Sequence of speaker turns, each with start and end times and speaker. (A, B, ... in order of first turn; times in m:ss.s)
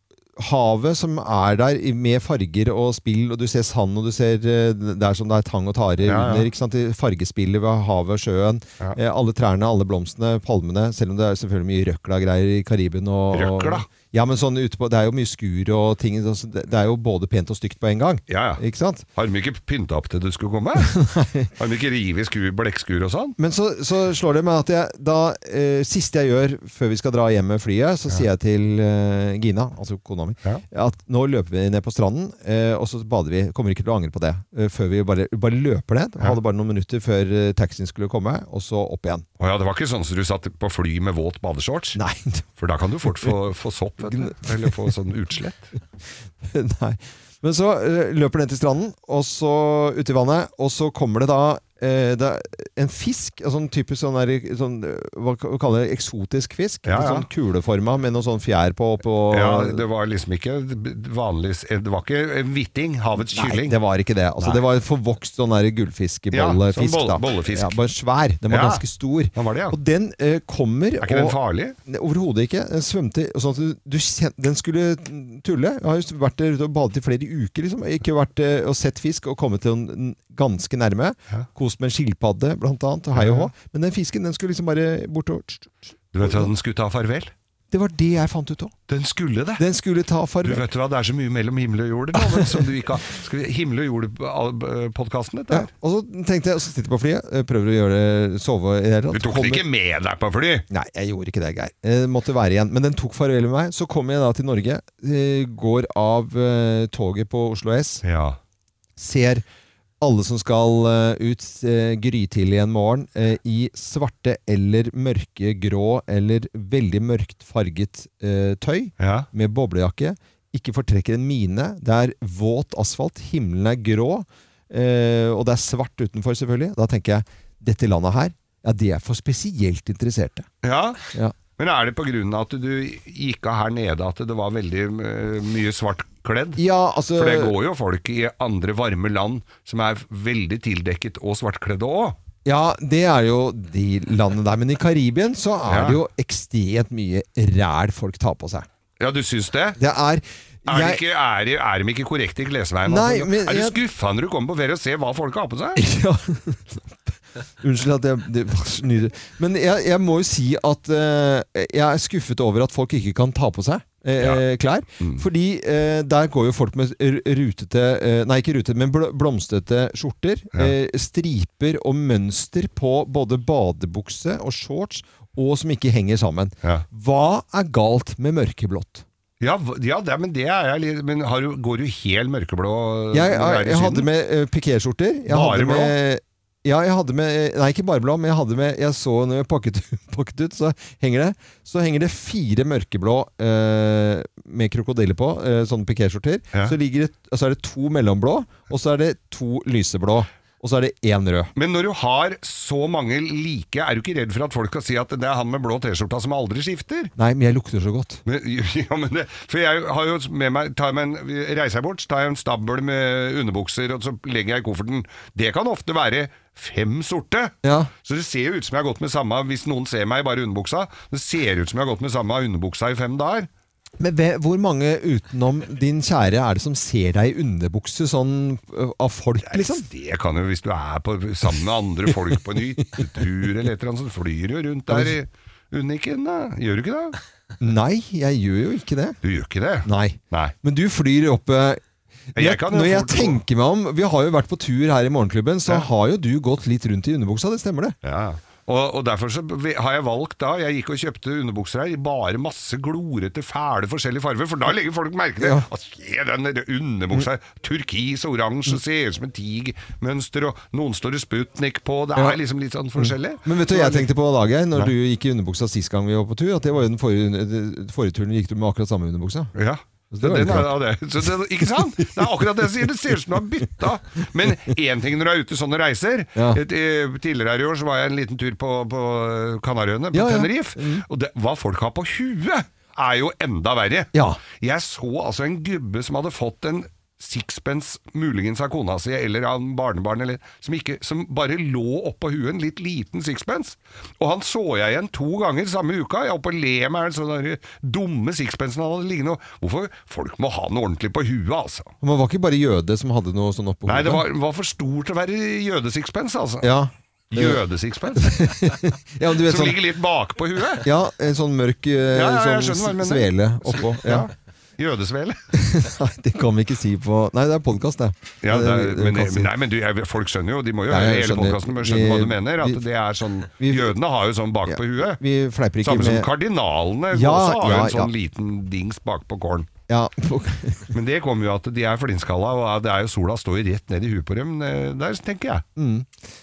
0:00.4-0:19.0 A
0:06.0-0:06.5 B
0:13.3-0:13.9 B
0:18.3-0:18.6 B
0:19.1-0:20.9 B
0:20.8-0:21.5 A
0:21.6-0:23.4 B
0:23.4-0:39.2 A
0:39.4-0:42.0 B
0:41.9-0:42.4 A
0:42.6-0:45.7 B
0:43.0-0:43.3 A
0:44.1-0:44.8 A
0:46.4-0:59.8 A
0:56.8-0:57.3 B
0:59.3-1:03.8 B
1:03.2-1:26.5 A
1:06.3-1:07.8 B
1:08.5-1:08.8 B
1:09.3-1:09.8 B
1:11.0-1:11.8 B
1:23.1-1:23.5 B
1:26.1-1:27.3 B
1:27.7-1:28.7 A
1:28.9-1:29.6 B
1:29.6-1:30.6 A
1:30.4-1:35.7 B
1:35.5-1:39.6 A
1:39.1-1:40.6 B
1:40.7-1:48.0 A
1:48.0-1:48.4 B
1:49.0-1:49.4 A
1:50.0-2:10.5 A
1:59.0-1:59.3 B
2:10.6-2:11.0 B
2:11.6-2:22.2 B
2:16.6-2:17.5 A
2:22.4-2:28.6 A
2:25.7-2:26.0 B
2:29.0-2:29.8 B
2:29.8-2:31.0 A
2:30.6-2:35.8 B
2:32.8-2:33.8 A
2:35.8-2:37.0 A
2:37.6-2:59.0 A
2:59.4-3:04.1 B
3:03.1-3:21.5 A
3:05.3-3:06.0 B
3:21.6-3:27.1 B
3:27.2-3:28.2 A
3:28.2-3:43.5 B
3:37.6-3:37.9 A
3:44.0-3:49.8 A
3:49.4-3:57.2 B
3:54.9-3:55.1 A
3:57.6-3:59.2 A
3:59.2-4:00.5 B
3:59.8-4:01.8 A
4:02.3-4:03.4 B
4:02.3-4:08.0 A
4:08.0-4:24.1 B
4:15.4-4:15.6 A
4:23.0-4:29.5 A
4:29.5-5:01.9 B
4:30.1-4:30.8 A
4:31.6-4:32.6 A
4:36.3-4:36.6 A
4:40.1-4:41.0 A
4:44.1-4:44.4 A
5:02.0-5:04.2 A
5:03.8-5:06.7 B
5:06.6-5:07.6 A
5:07.3-5:08.6 B
5:08.1-5:09.8 A
5:09.4-5:10.9 B
5:10.8-5:14.3 A
5:12.1-5:15.4 B
5:15.5-5:19.5 A
5:18.4-5:25.2 B
5:20.9-5:22.8 A
5:23.5-5:23.9 A
5:24.7-5:26.3 A
5:25.8-5:29.7 B
5:27.1-5:28.1 A
5:29.9-5:30.9 A
5:30.9-5:35.6 B
5:35.8-5:36.1 A